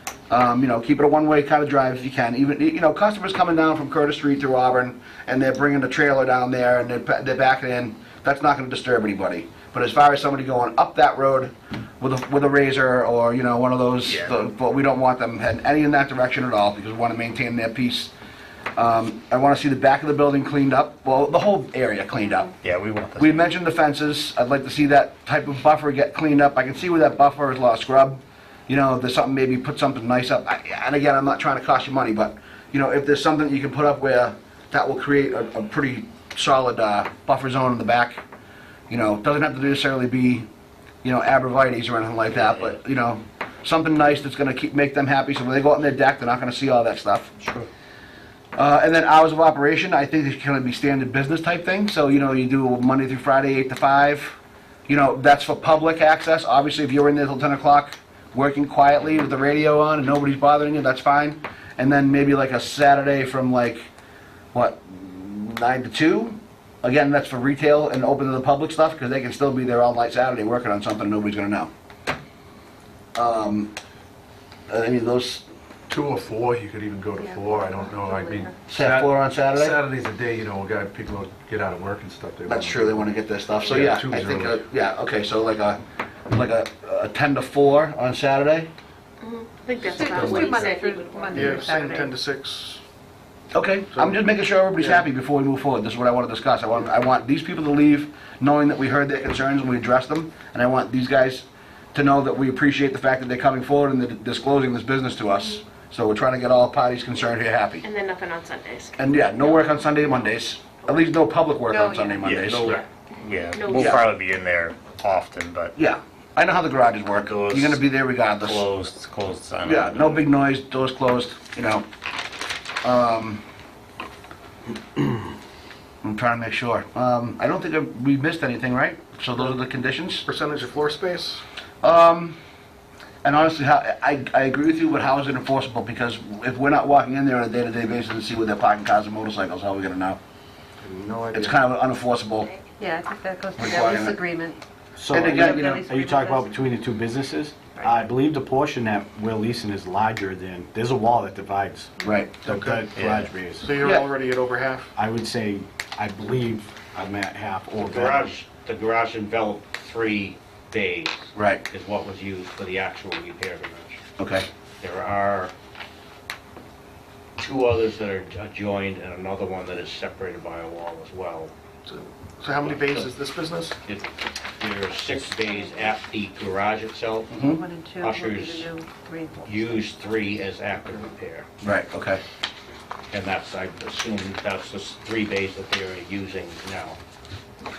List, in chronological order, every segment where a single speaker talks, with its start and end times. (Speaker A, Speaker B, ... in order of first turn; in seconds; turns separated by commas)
Speaker A: 0.3-18.1, Speaker B: 14.0-14.3, Speaker A: 18.8-22.5, Speaker B: 22.6-23.4, Speaker A: 23.2-38.2, Speaker A: 38.9-40.5, Speaker A: 41.0-47.3, Speaker A: 48.5-63.8, Speaker A: 64.5-71.7, Speaker A: 73.1-73.7, Speaker A: 74.7-75.4, Speaker C: 75.9-84.6, Speaker D: 77.3-78.5, Speaker A: 78.7-79.8, Speaker A: 82.5-88.7, Speaker E: 89.2-91.8, Speaker D: 89.8-92.2, Speaker F: 91.5-92.1, Speaker A: 93.5-107.8, Speaker E: 107.8-110.1, Speaker A: 109.0-112.8, Speaker E: 110.8-111.1, Speaker D: 111.7-112.2, Speaker B: 112.2-115.7, Speaker E: 113.5-114.0, Speaker A: 113.7-114.0, Speaker A: 115.8-118.6, Speaker B: 117.2-117.8, Speaker B: 118.4-120.2, Speaker A: 119.6-121.8, Speaker A: 122.8-123.4, Speaker A: 126.0-130.2, Speaker F: 130.2-131.4, Speaker A: 131.8-132.4, Speaker A: 133.2-140.2, Speaker F: 140.8-141.5, Speaker A: 141.3-142.5, Speaker D: 142.8-144.6, Speaker A: 143.6-144.2, Speaker G: 144.9-151.9, Speaker A: 145.1-145.8, Speaker D: 145.3-146.5, Speaker A: 152.0-152.4, Speaker G: 152.4-153.7, Speaker F: 152.5-152.8, Speaker B: 152.9-153.3, Speaker F: 153.6-154.8, Speaker A: 153.8-154.1, Speaker G: 154.9-158.4, Speaker H: 157.8-164.0, Speaker A: 161.3-161.6, Speaker A: 164.2-164.4, Speaker H: 164.8-165.5, Speaker H: 167.4-171.5, Speaker F: 171.9-173.7, Speaker H: 172.5-173.1, Speaker H: 173.8-177.3, Speaker D: 175.5-175.8, Speaker A: 177.3-177.6, Speaker D: 177.4-179.9, Speaker H: 178.0-178.7, Speaker H: 179.4-181.5, Speaker A: 181.6-182.2, Speaker H: 183.1-187.0